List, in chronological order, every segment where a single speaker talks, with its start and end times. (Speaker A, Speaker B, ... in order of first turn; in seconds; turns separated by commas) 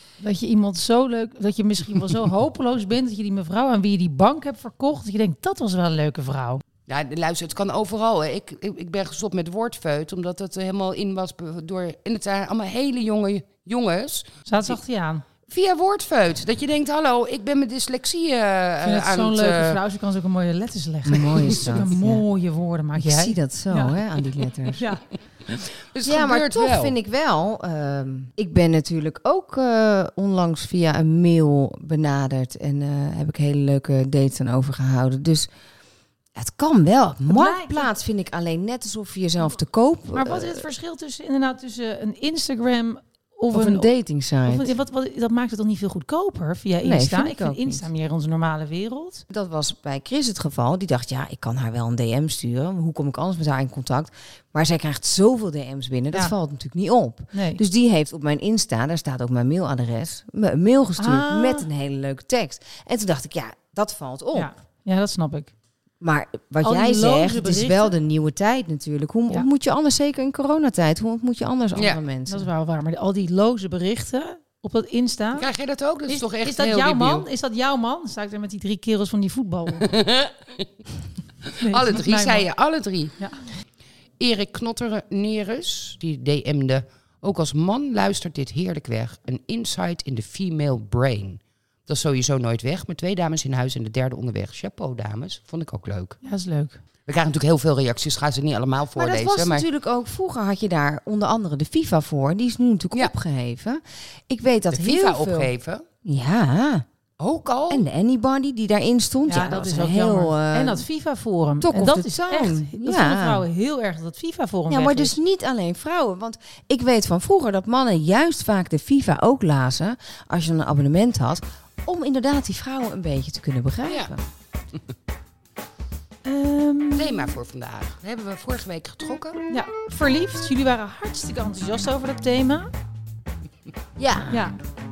Speaker A: 0.2-6.6, Speaker B: 6.9-14.8, Speaker A: 14.5-15.2, Speaker B: 15.5-19.8, Speaker A: 18.8-24.0, Speaker C: 21.1-22.2, Speaker C: 23.0-24.8, Speaker A: 24.7-25.0, Speaker B: 25.5-26.9, Speaker C: 26.1-35.5, Speaker C: 36.4-40.6, Speaker A: 37.3-37.9, Speaker A: 40.1-43.9, Speaker C: 43.5-44.7, Speaker A: 44.5-49.2, Speaker C: 46.8-47.9, Speaker C: 49.3-64.5, Speaker A: 57.3-57.6, Speaker A: 61.0-61.7, Speaker A: 64.3-65.5, Speaker C: 66.0-72.5, Speaker A: 66.6-67.9, Speaker B: 71.8-72.0, Speaker A: 72.3-75.5, Speaker B: 75.4-77.3, Speaker A: 76.1-79.9, Speaker B: 79.8-80.7, Speaker B: 81.5-83.2, Speaker A: 81.6-82.5, Speaker B: 84.2-96.2, Speaker A: 96.2-96.8, Speaker B: 97.1-99.7, Speaker C: 99.0-105.5, Speaker B: 104.7-105.8, Speaker C: 106.0-106.8, Speaker B: 107.2-107.9, Speaker C: 107.7-110.8, Speaker A: 109.3-115.2, Speaker C: 111.6-113.5, Speaker C: 114.7-124.2, Speaker B: 123.9-124.1, Speaker A: 126.2-127.3, Speaker B: 127.0-129.4, Speaker A: 129.5-132.7, Speaker C: 134.0-134.5, Speaker A: 134.3-134.6